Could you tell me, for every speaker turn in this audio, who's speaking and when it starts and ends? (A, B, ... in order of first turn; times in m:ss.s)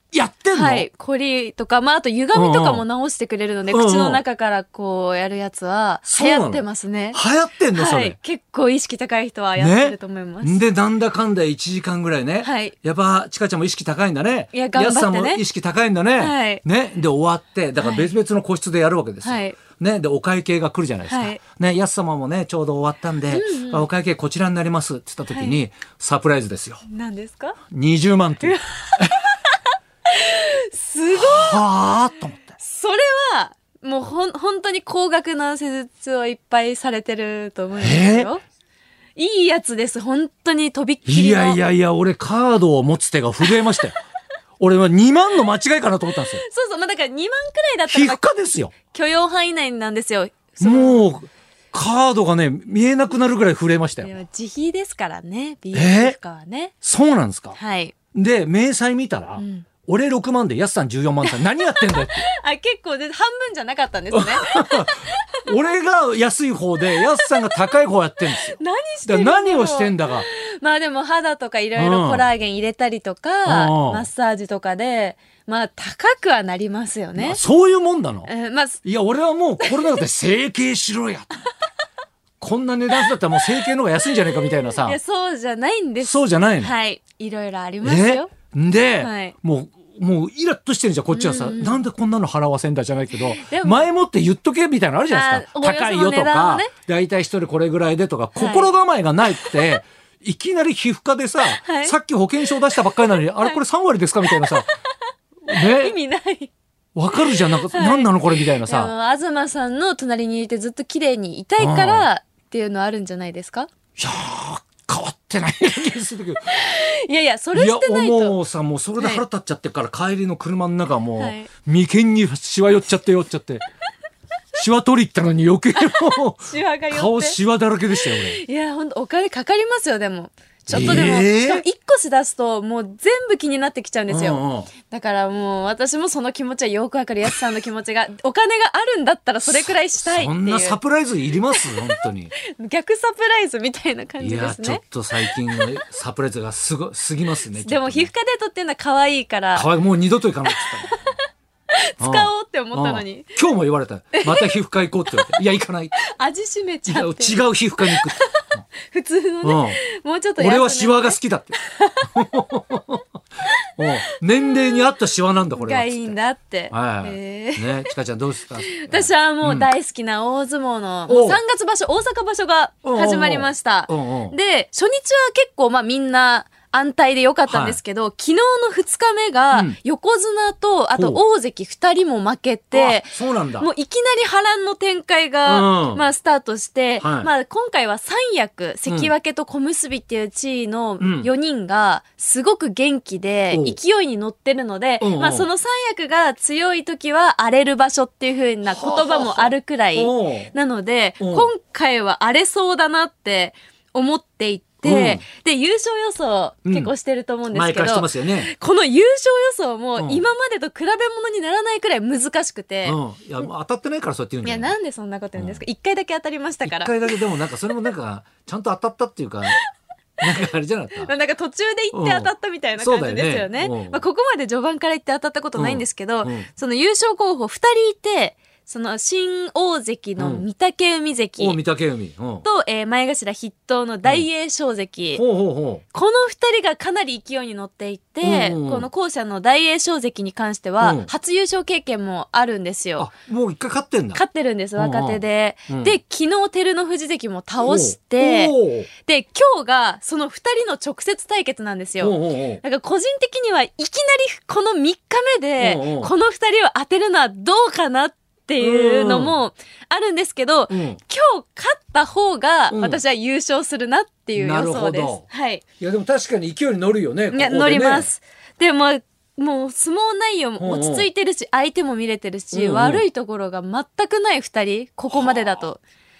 0:00.1-0:00.9 A
0:00.5-0:07.2 B
0:02.3-0:02.8 A
0:03.7-0:04.2 A
0:06.0-0:08.2 A
0:07.7-0:10.6 B
0:09.6-0:26.8 A
0:12.4-0:12.8 B
0:14.5-0:15.4 B
0:16.2-0:16.6 B
0:17.8-0:18.1 B
0:19.2-0:19.6 B
0:21.1-0:21.4 B
0:23.3-0:23.8 B
0:25.3-0:25.6 B
0:26.8-0:27.6 B
0:27.7-0:29.1 A
0:28.4-0:31.6 B
0:31.1-0:32.6 A
0:32.6-0:38.4 B
0:37.8-0:38.3 A
0:39.2-0:41.6 B
0:41.0-0:43.9 A
0:44.6-0:46.4 A
0:46.3-0:51.1 B
0:47.9-0:48.7 A
0:50.6-0:54.1 A
0:54.0-0:56.7 B
0:55.7-0:56.1 A
0:56.8-0:57.6 A
0:57.5-0:57.9 B
0:58.1-1:02.3 A
0:59.4-0:59.7 B
1:01.2-1:05.5 B
1:04.1-1:10.3 A
1:07.0-1:07.7 B
1:08.3-1:17.4 B
1:11.8-1:12.3 A
1:13.4-1:14.1 A
1:17.2-1:18.3 A
1:18.2-1:18.8 B
1:18.8-1:21.4 A
1:19.6-1:20.0 B
1:22.4-1:25.0 A
1:24.2-1:28.3 B
1:26.0-1:26.7 A
1:27.8-1:44.7 A
1:29.0-1:29.4 B
1:31.1-1:31.8 B
1:33.2-1:33.9 B
1:35.1-1:36.7 B
1:38.4-1:38.7 B
1:41.6-1:42.0 B
1:43.0-1:43.6 B
1:44.2-1:45.0 B
1:45.4-1:45.9 A
1:45.5-1:46.5 B
1:46.9-1:48.9 A
1:47.1-1:53.7 B
1:51.6-1:52.1 A
1:54.0-1:56.6 A
1:56.4-1:58.4 B
1:57.5-2:03.6 A
1:59.0-1:59.2 B
2:01.2-2:01.5 B
2:04.5-2:08.4 A
2:05.8-2:07.4 B
2:08.0-2:20.8 B
2:10.7-2:11.6 A
2:14.1-2:14.7 A
2:19.4-2:22.3 A
2:21.5-2:25.8 B
2:24.2-2:28.1 A
2:27.5-2:29.7 B
2:29.5-2:31.0 A
2:30.5-2:33.4 B
2:32.0-2:36.0 A
2:34.1-2:34.5 B
2:36.0-2:42.1 B
2:36.8-2:38.6 A
2:39.4-2:39.8 A
2:40.4-2:41.6 A
2:42.1-2:43.0 A
2:43.4-2:44.9 B
2:43.7-2:46.2 A
2:45.6-2:47.9 B
2:46.7-2:49.7 A
2:48.6-3:33.0 B
2:51.1-2:51.4 A
2:52.8-2:54.4 A
2:57.5-2:57.8 A
2:59.5-2:59.8 A
3:00.9-3:01.2 A
3:02.7-3:03.7 A
3:05.4-3:06.0 A
3:07.0-3:07.3 A
3:11.0-3:11.3 A
3:13.5-3:13.8 A
3:15.0-3:15.5 A
3:18.7-3:20.5 A
3:21.2-3:21.5 A
3:24.8-3:25.2 A
3:27.5-3:28.5 A
3:30.0-3:30.2 A
3:32.8-3:34.7 A
3:34.4-3:37.1 B
3:35.4-3:35.6 A
3:36.6-3:39.6 A
3:40.2-3:41.1 A
3:40.9-3:51.6 B
3:41.9-3:44.0 A
3:45.6-3:46.5 A
3:50.2-3:50.4 A
3:51.4-3:52.4 A
3:52.4-3:55.2 B
3:55.1-3:55.8 A
3:55.9-4:03.1 B
3:58.2-3:58.9 A
4:00.8-4:01.1 A
4:03.0-4:04.2 A
4:04.1-4:25.6 B
4:04.8-4:05.9 A
4:07.6-4:08.9 A
4:12.0-4:12.6 A
4:15.6-4:16.1 A
4:18.6-4:19.4 A
4:20.7-4:21.0 A
4:22.7-4:23.0 A
4:24.4-4:25.2 A
4:25.8-4:28.1 A
4:27.3-4:35.8 B
4:30.6-4:31.0 A
4:32.5-4:33.0 A